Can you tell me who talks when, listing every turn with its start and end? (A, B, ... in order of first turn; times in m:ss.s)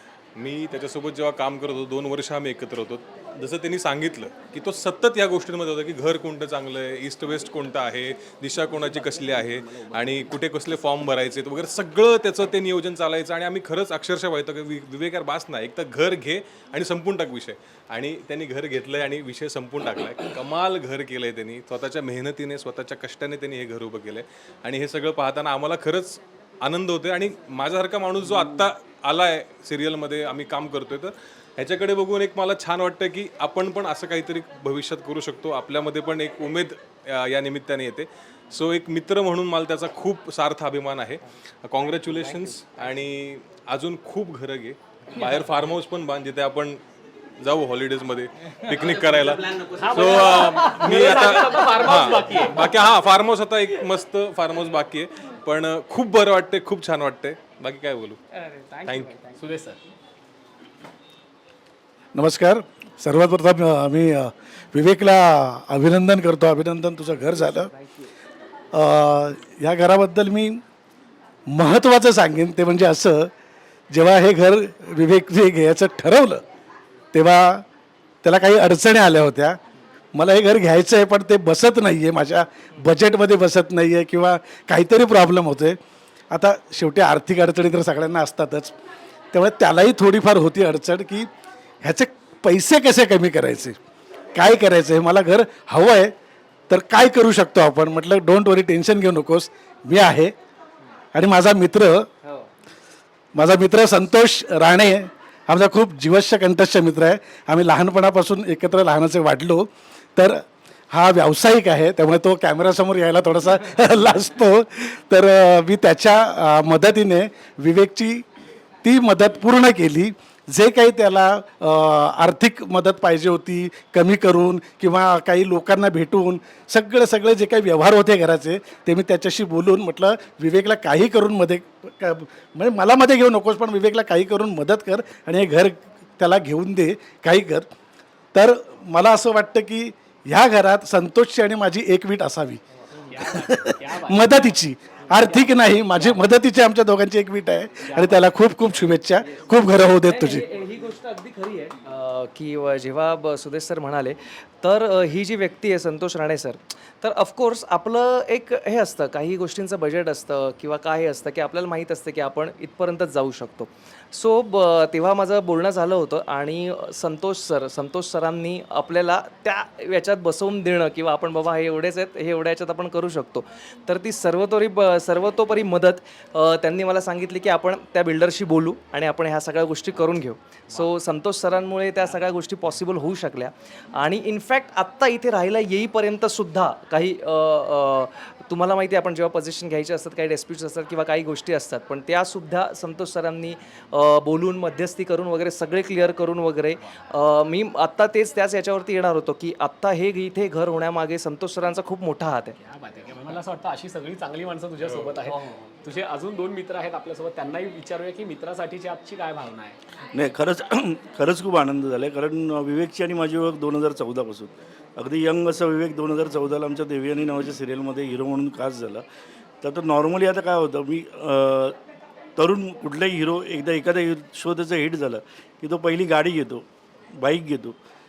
0:00.4-0:46.8 A
0:08.8-0:10.4 B
0:47.4-0:58.2 A
0:49.5-0:52.7 B
0:58.3-0:59.4 C
0:58.9-0:59.1 A
0:59.4-0:59.8 B
1:02.1-1:07.7 D
1:07.8-1:08.1 B
1:08.7-1:10.6 D
1:11.5-1:13.3 D
1:13.9-1:16.4 D
1:17.1-1:17.6 D
1:18.2-1:19.6 D
1:20.1-1:25.8 D
1:26.3-1:28.7 D
1:29.3-1:31.3 D
1:31.8-1:33.8 D
1:34.4-1:36.1 D
1:36.7-1:40.3 D
1:41.1-1:42.1 D
1:42.2-1:42.5 C
1:43.4-1:58.2 D
1:58.8-2:17.7 D
2:18.3-2:22.6 D
2:23.0-2:24.4 B
2:23.2-2:30.5 D
2:25.2-2:26.3 B
2:27.9-2:28.3 B
2:30.0-3:22.6 C
3:22.6-3:29.8 B
3:24.8-3:25.1 A
3:25.2-3:25.7 C
3:30.1-3:39.0 E
3:39.6-3:41.8 E
3:42.4-3:47.8 E